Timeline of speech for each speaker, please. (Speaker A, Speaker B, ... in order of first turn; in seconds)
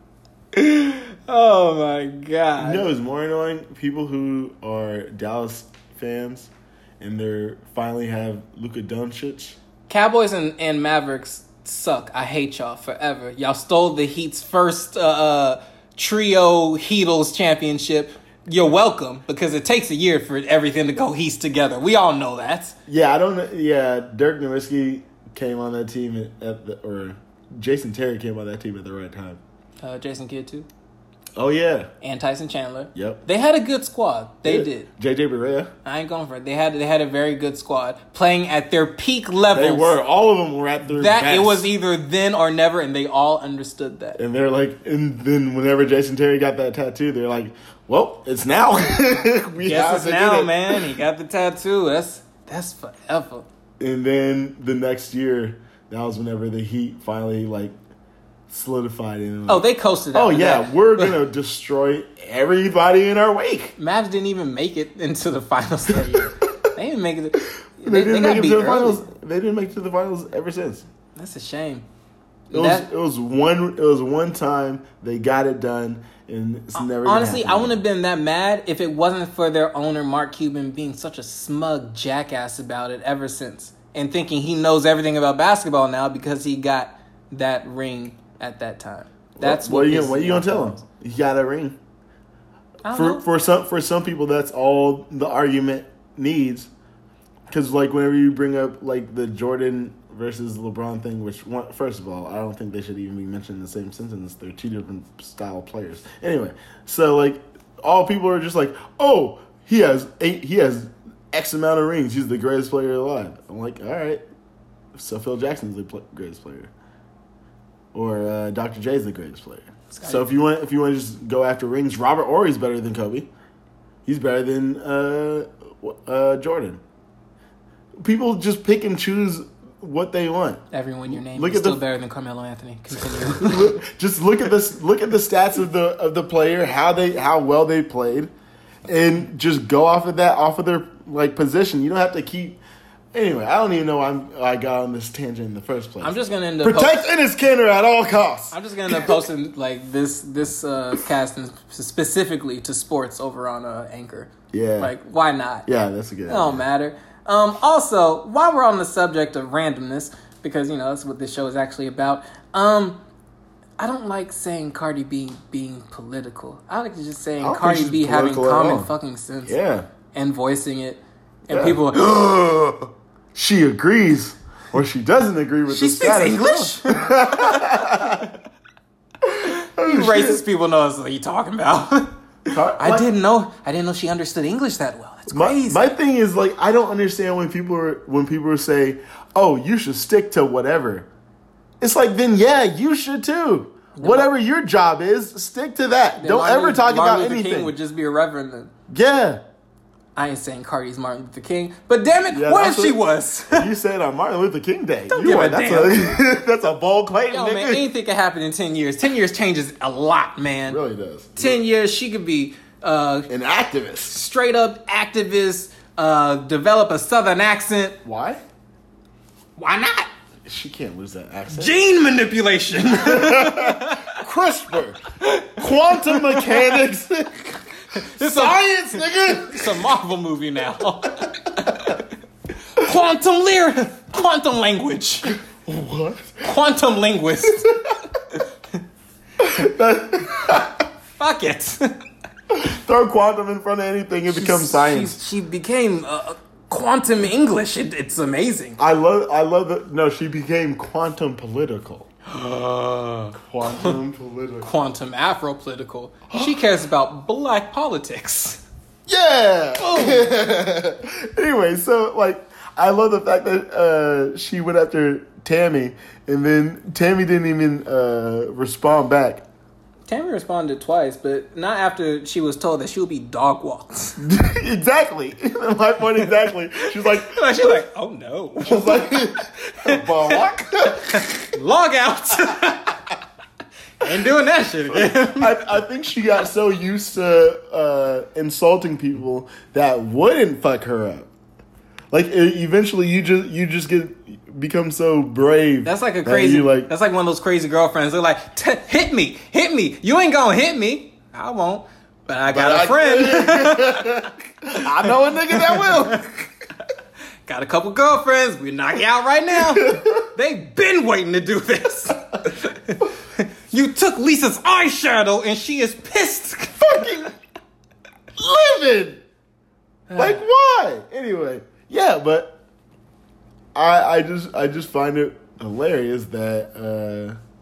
Speaker A: 0.5-2.8, 9.9-22.8, 29.8-30.7, 32.0-34.9, 35.8-40.0, 40.9-44.2, 49.6-53.5, 59.5-61.2, 63.8-69.0, 71.1-71.9, 72.5-72.9, 76.8-90.8, 92.8-93.2, 119.9-120.3, 130.7-133.8, 146.0-147.1, 148.5-155.7, 156.3-163.0, 163.8-169.6, 170.1-172.3, 175.7-178.2, 179.4-185.9, 193.9-194.3, 196.2-198.7, 200.2-203.7, 205.1-206.2, 207.3-210.8, 211.4-213.3, 214.1-218.0, 219.6-220.1, 221.5-224.2, 225.2-226.8, 227.9-232.1, 232.7-235.4, 236.4-237.7, 241.2-241.9, 244.3-248.8, 252.3-253.9, 254.6-258.6, 259.8-260.3, 270.1-274.2, 276.3-283.1, 284.0-285.6, 295.8-306.3, 307.4-317.0, 320.1-320.4
Speaker B: 2.6-9.6, 22.9-29.4, 31.4-31.9, 32.9-33.2, 34.4-35.7, 39.5-41.7, 44.1-50.9, 53.8-57.7, 58.5-63.7, 67.8-70.9, 72.5-77.8, 89.4-91.8, 92.9-96.7, 97.5-114.2, 114.9-116.7, 117.9-123.3, 124.0-126.8, 128.0-131.8, 133.0-138.3, 138.9-142.6, 143.1-149.2, 154.5-154.9, 155.7-156.7, 167.4-168.9, 169.4-169.9, 171.5-178.4, 179.2-180.4, 182.5-183.1, 185.3-191.1, 191.8-197.8, 198.9-199.4, 202.3-203.0, 203.5-207.9, 210.7-211.6, 213.3-214.2, 218.0-218.4, 220.4-221.8, 222.8-225.0, 225.6-229.8, 231.7-232.0, 235.3-236.5, 237.7-238.0, 239.4-240.9, 242.5-245.2, 248.8-252.1, 253.3-254.7, 256.3-256.6, 259.1-269.4, 274.2-277.8, 278.6-281.6, 284.9-291.3, 292.1-296.9, 302.5-306.4, 309.5-310.3, 316.8-317.3, 318.4-319.2, 320.1-322.6, 323.7-327.4